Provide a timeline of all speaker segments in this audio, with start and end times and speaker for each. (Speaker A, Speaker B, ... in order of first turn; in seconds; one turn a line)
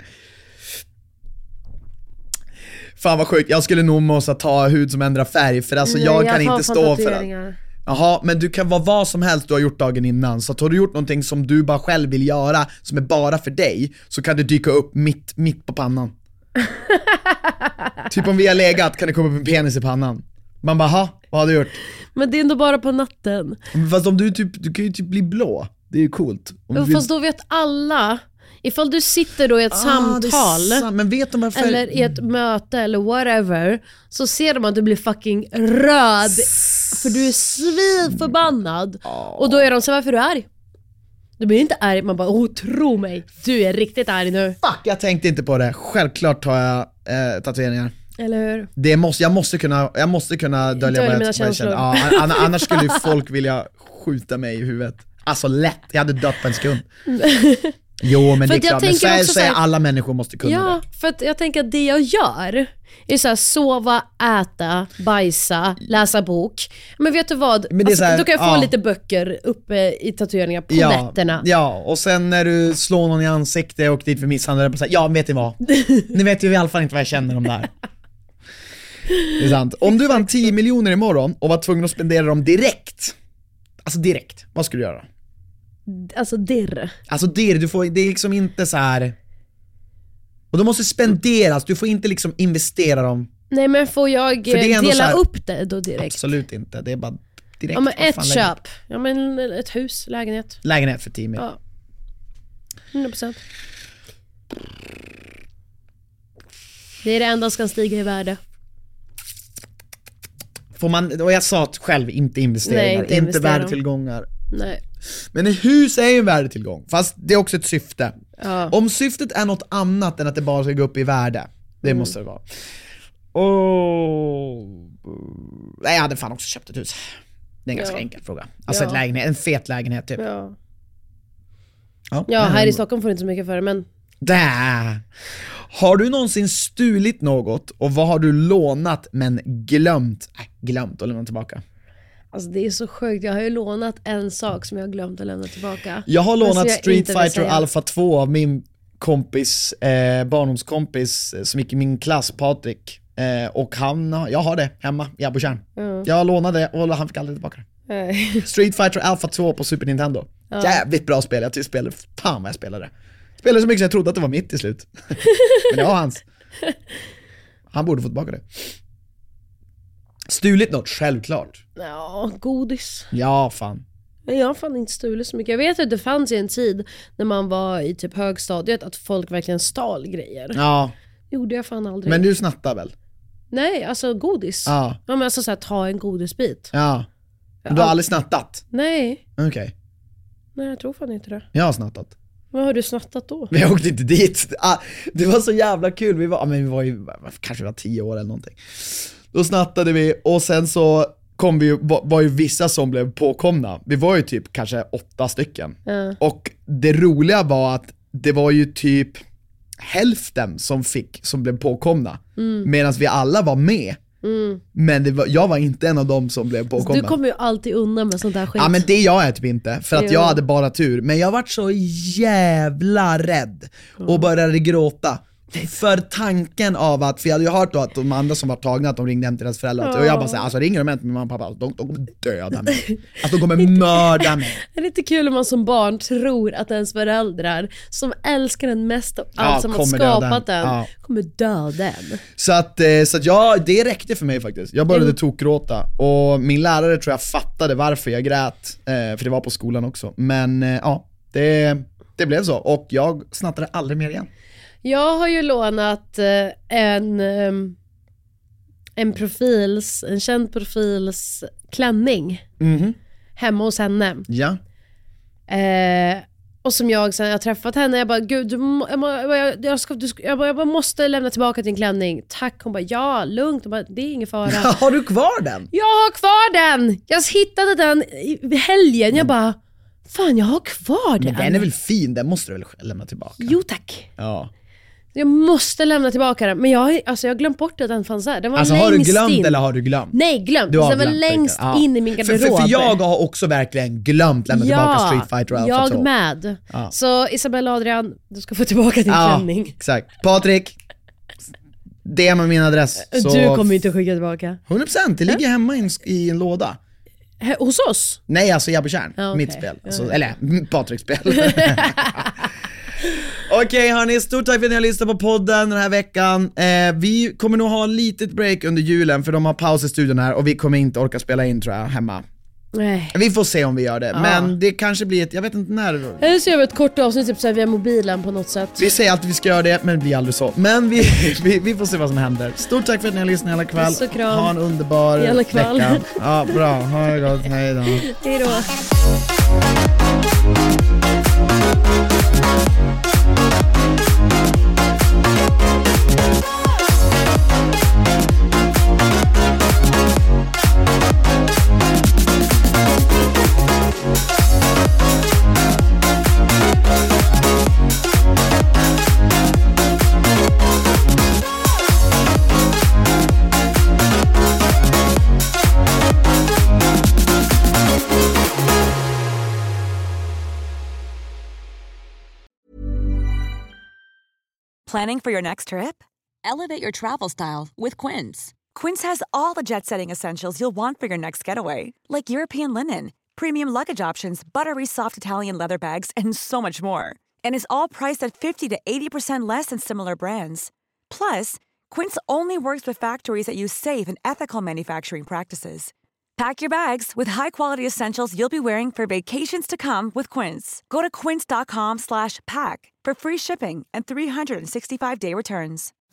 Speaker A: 3.0-7.3
Speaker B: 5.8-7.5
Speaker A: 7.8-16.1
Speaker B: 16.7-17.7
Speaker A: 18.1-21.8
Speaker B: 22.1-23.6
Speaker A: 23.7-27.1
Speaker B: 26.7-30.9
Speaker A: 29.7-32.1
Speaker B: 31.5-40.5
Speaker A: 36.9-37.1
Speaker A: 39.0-39.6
Speaker B: 41.4-44.6
Speaker A: 44.6-47.9
Speaker B: 48.2-48.7
Speaker A: 48.8-56.9
Speaker B: 50.8-53.1
Speaker B: 57.1-57.7
Speaker A: 58.0-60.8
Speaker B: 58.4-59.6
Speaker B: 60.4-71.4
Speaker A: 67.7-68.7
Speaker A: 70.7-77.7
Speaker A: 79.3-83.2
Speaker A: 83.8-85.0
Speaker B: 85.9-87.0
Speaker A: 87.1-89.1
Speaker A: 90.5-93.3
Speaker B: 93.5-96.2
Speaker A: 94.5-95.2
Speaker A: 96.0-98.5
Speaker B: 97.7-100.6
Speaker A: 100.6-101.4
Speaker B: 102.9-103.4
Speaker B: 107.0-108.4
Speaker A: 110.7-114.3
Speaker B: 112.6-113.8
Speaker B: 114.5-114.8
Speaker A: 115.2-118.1
Speaker B: 118.4-118.7
Speaker A: 118.7-122.5
Speaker B: 121.8-122.1
Speaker A: 123.3-127.1
Speaker A: 127.6-130.2
Speaker B: 127.7-128.0
Speaker B: 128.7-129.0
Speaker B: 130.2-130.5
Speaker A: 132.1-132.8
Speaker B: 132.3-133.8
Speaker A: 134.2-135.0
Speaker A: 135.7-141.6
Speaker B: 142.3-147.7
Speaker A: 146.1-157.7
Speaker B: 155.8-156.1
Speaker B: 157.9-158.5
Speaker A: 158.4-165.2
Speaker B: 160.5-160.8
Speaker B: 165.2-165.7
Speaker A: 165.7-166.2
Speaker A: 167.7-168.7
Speaker A: 170.3-171.6
Speaker B: 171.8-173.1
Speaker A: 173.1-173.8
Speaker B: 174.3-180.6
Speaker A: 180.5-180.9
Speaker B: 181.3-182.2
Speaker A: 182.0-182.9
Speaker B: 183.5-186.7
Speaker A: 184.7-185.0
Speaker A: 186.7-187.1
Speaker B: 187.6-188.0
Speaker A: 187.7-188.6
Speaker B: 188.7-189.2
Speaker A: 189.4-189.7
Speaker B: 190.6-191.4
Speaker A: 191.5-192.1
Speaker B: 192.5-193.5
Speaker A: 193.5-209.2
Speaker B: 205.9-206.2
Speaker A: 209.8-214.0
Speaker B: 212.4-212.7
Speaker B: 214.2-214.6
Speaker A: 214.7-217.2
Speaker B: 216.8-218.9
Speaker A: 218.5-234.6
Speaker B: 219.9-220.4
Speaker B: 224.0-224.3
Speaker B: 229.8-230.4
Speaker B: 233.6-242.2
Speaker A: 239.4-240.9
Speaker A: 242.4-254.3
Speaker B: 244.9-245.2
Speaker B: 254.8-257.8
Speaker B: 259.0-262.4
Speaker A: 262.6-263.0
Speaker B: 263.4-264.3
Speaker A: 264.3-264.6
Speaker B: 265.5-274.7
Speaker A: 274.4-275.7
Speaker B: 275.7-279.6
Speaker B: 280.1-281.7
Speaker A: 281.2-283.6
Speaker B: 283.4-284.1
Speaker A: 284.2-284.5
Speaker B: 285.1-289.6
Speaker A: 288.6-290.1
Speaker B: 290.1-293.0
Speaker A: 290.7-296.1
Speaker B: 294.5-299.8
Speaker A: 299.1-300.8
Speaker A: 302.0-303.7
Speaker B: 303.1-304.6
Speaker A: 304.7-306.8
Speaker B: 307.4-308.2
Speaker A: 308.3-312.4
Speaker B: 309.2-310.2
Speaker B: 311.3-312.4
Speaker A: 313.4-322.2
Speaker B: 322.7-323.1
Speaker A: 323.1-326.3
Speaker B: 324.1-324.5
Speaker B: 326.2-328.8
Speaker A: 328.8-338.1
Speaker B: 333.8-334.5
Speaker B: 335.2-336.6
Speaker B: 338.1-338.8
Speaker C: 374.9-405.9